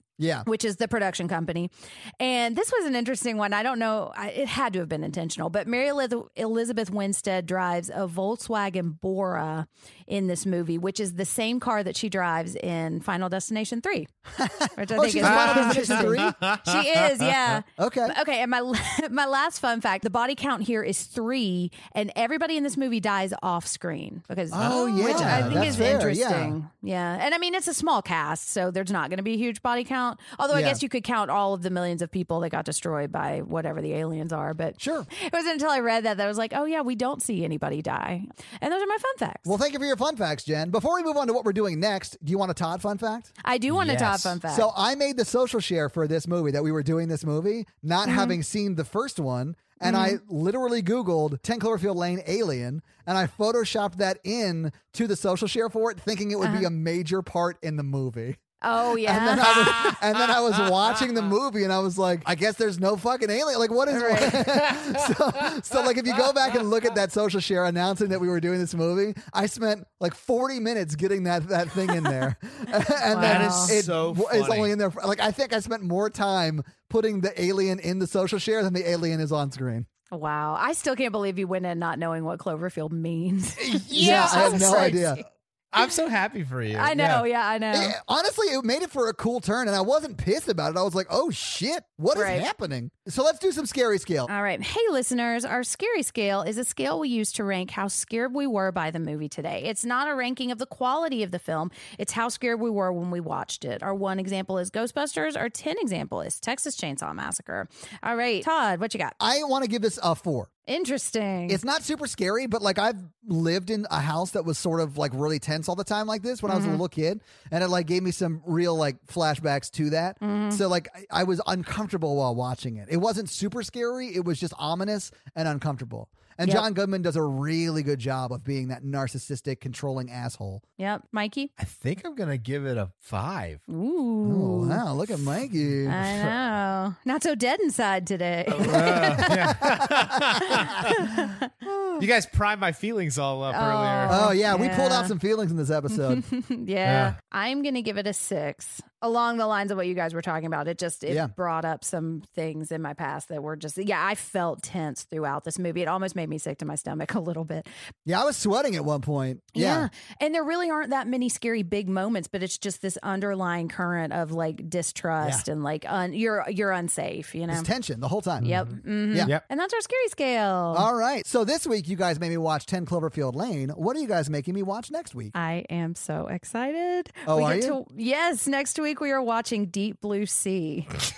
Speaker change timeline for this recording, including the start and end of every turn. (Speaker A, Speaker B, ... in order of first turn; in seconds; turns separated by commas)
Speaker A: 0.2-0.4, Speaker B: 0.5-14.1, Speaker A: 14.4-16.4, Speaker B: 14.8-39.5, Speaker C: 15.2-17.6, Speaker A: 17.8-18.1, Speaker A: 24.5-26.6, Speaker C: 24.6-26.0, Speaker A: 30.5-30.8, Speaker A: 34.8-35.1, Speaker A: 39.4-43.3, Speaker B: 43.4-44.7, Speaker C: 43.7-44.4, Speaker A: 44.5-58.4, Speaker B: 48.0-48.4, Speaker B: 49.8-50.2, Speaker B: 56.4-56.7, Speaker B: 58.6-60.0, Speaker A: 59.0-79.9, Speaker C: 59.5-61.1, Speaker B: 63.9-64.6, Speaker C: 64.7-65.9, Speaker B: 73.1-73.8, Speaker C: 73.2-74.7, Speaker B: 80.1-85.2, Speaker C: 83.6-85.1, Speaker A: 83.7-85.2, Speaker C: 85.7-87.2, Speaker B: 86.7-88.0, Speaker A: 87.7-94.3, Speaker B: 92.1-92.4, Speaker B: 94.3-109.2, Speaker A: 109.2-110.5, Speaker B: 110.7-111.6, Speaker A: 111.5-130.6, Speaker B: 116.5-116.8, Speaker B: 120.2-120.6, Speaker B: 130.8-131.5, Speaker C: 131.6-133.6, Speaker B: 133.7-134.8, Speaker A: 134.2-136.0, Speaker C: 135.7-136.3, Speaker B: 135.9-139.6, Speaker C: 138.5-141.0, Speaker A: 138.7-140.8, Speaker B: 140.6-141.5, Speaker A: 141.6-142.0, Speaker C: 142.0-144.2, Speaker B: 143.5-145.1, Speaker A: 144.1-146.2, Speaker B: 145.9-157.7, Speaker C: 146.8-147.1, Speaker A: 158.1-159.9, Speaker B: 159.5-167.7, Speaker A: 167.5-168.5, Speaker C: 168.4-169.4, Speaker B: 168.4-170.9, Speaker A: 170.7-175.3, Speaker B: 175.3-181.1, Speaker A: 177.2-177.8